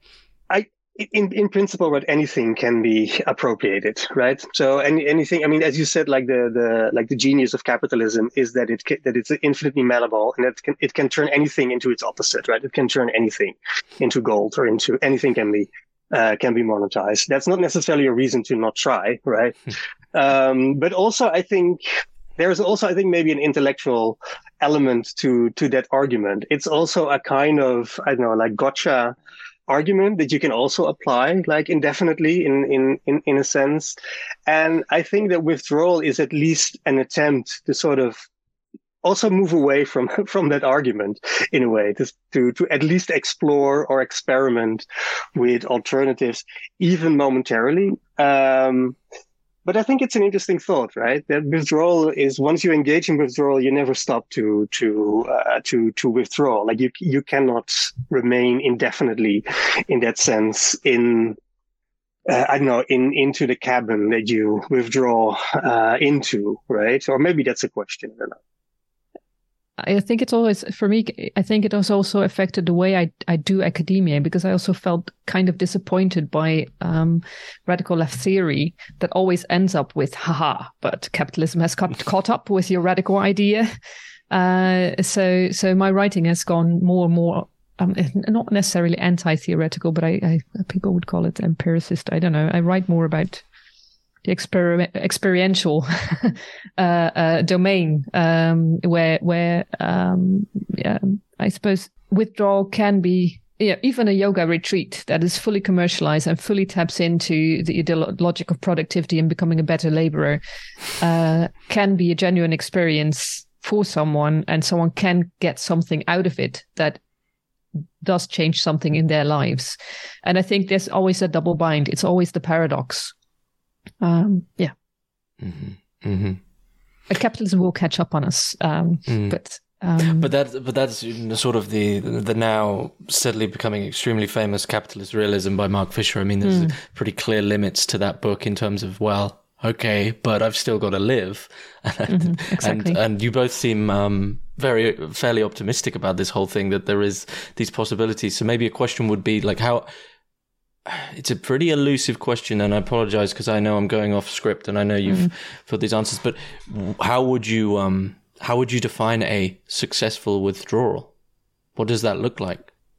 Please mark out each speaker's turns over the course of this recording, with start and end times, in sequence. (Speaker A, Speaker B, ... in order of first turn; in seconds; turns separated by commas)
Speaker A: 0.5-29.1, Speaker A: 29.7-38.2, Speaker A: 39.0-49.0, Speaker A: 49.6-61.4, Speaker A: 62.3-68.4, Speaker B: 69.8-83.7, Speaker B: 84.3-93.4, Speaker B: 94.2-110.4, Speaker B: 111.0-117.0, Speaker B: 118.0-123.1, Speaker B: 124.0-124.7, Speaker C: 125.4-126.4, Speaker B: 127.1-130.3, Speaker C: 129.1-129.3, Speaker C: 130.2-149.9, Speaker B: 136.4-136.7, Speaker B: 142.1-143.0, Speaker C: 150.8-161.1, Speaker C: 161.8-162.7